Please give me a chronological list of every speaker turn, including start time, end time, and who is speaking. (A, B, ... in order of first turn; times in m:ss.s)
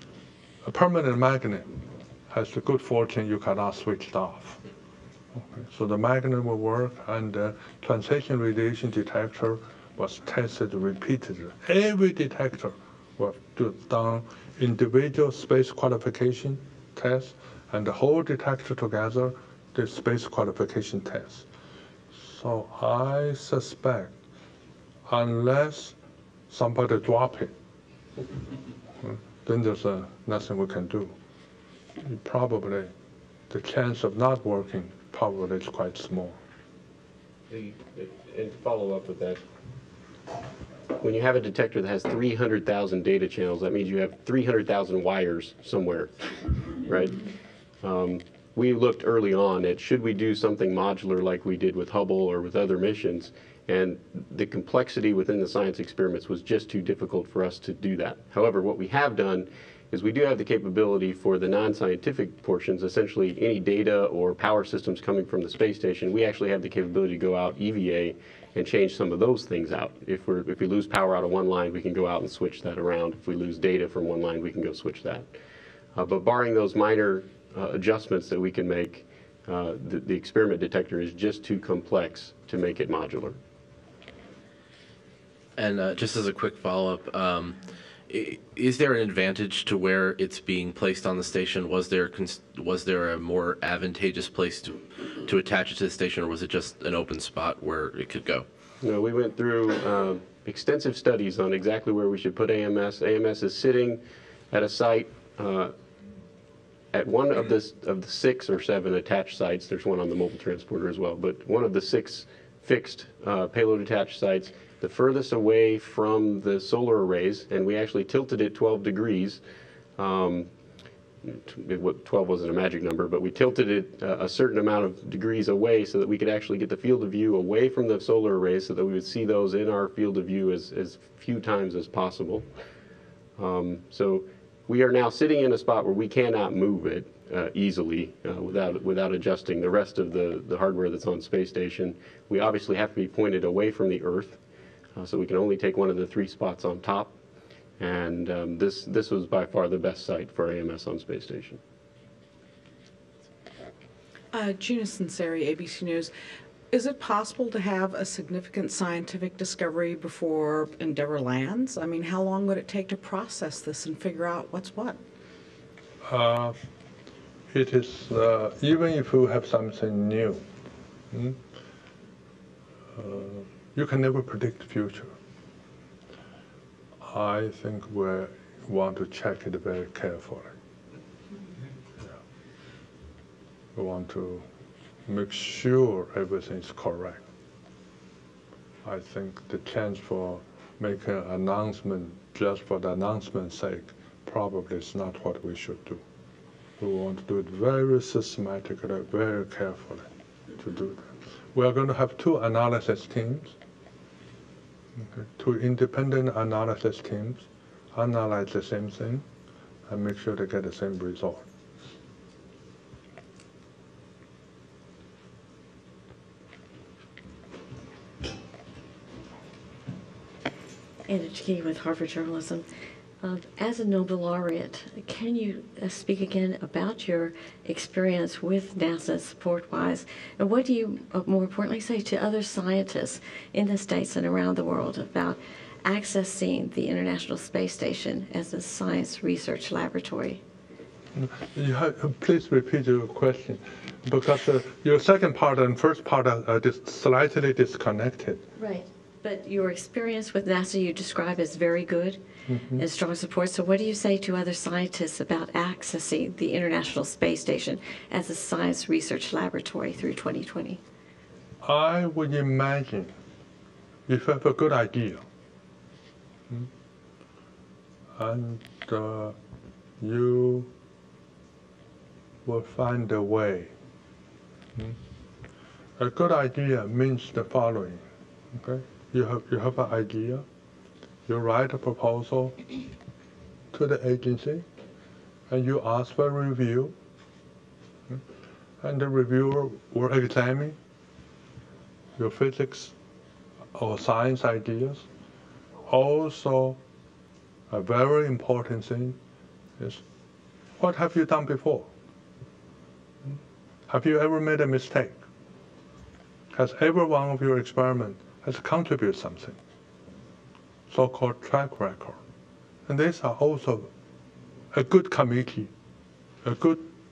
0:00.6-0:04.6 A
0:05.3-0:21.4 A
0:22.1-0:24.2 A
0:25.1-0:26.0 A
0:26.5-0:27.5 A
0:29.0-0:31.1 A
0:32.0-0:32.9 A
0:33.5-0:36.4 A
0:37.5-0:39.4 B
0:41.0-0:46.1 B
0:46.7-0:47.2 B
0:47.8-1:15.3 B
1:15.9-1:23.4 B
1:25.6-1:27.6 C
1:28.1-1:38.4 C
1:38.8-1:45.7 B
1:46.9-1:59.4 B
2:00.0-2:00.5 B
2:01.2-2:12.4 B
2:13.4-2:24.4 B
2:25.0-2:27.2 B
2:27.8-2:31.6 B
2:34.3-2:36.1 D
2:36.7-2:45.0 D
2:46.0-2:46.6 A
2:47.5-2:50.4 A
2:51.1-2:51.4 A
2:52.9-2:55.1 A
2:57.0-3:00.6 A
3:03.7-3:04.4 A
3:05.0-3:07.2 A
3:08.8-3:16.0 A
3:16.8-3:23.5 A
3:25.0-3:29.2 A
3:29.9-3:31.4 A
3:41.0-3:42.7 E
3:43.2-4:00.4 E
4:01.1-4:08.4 A
4:08.6-4:12.2 E
4:12.5-4:12.8 A
4:12.7-4:20.8 E
4:21.6-4:23.1 A
4:24.1-4:25.2 A
4:28.2-4:29.4 A
4:30.0-4:30.7 A
4:32.4-4:33.7 A
4:36.0-4:40.4 A
4:41.3-4:42.6 A
4:43.7-4:44.6 A
4:45.5-4:46.9 A
4:48.8-4:50.8 A
4:52.2-4:52.9 A
4:53.7-4:55.0 A
4:55.9-4:56.8 A
4:57.7-4:59.2 A
4:59.8-5:00.0 A
5:00.8-5:01.9 A
5:03.9-5:05.2 A
5:06.5-5:09.6 A
5:10.9-5:12.2 A
5:12.9-5:13.9 A
5:14.7-5:15.7 A
5:16.4-5:16.9 A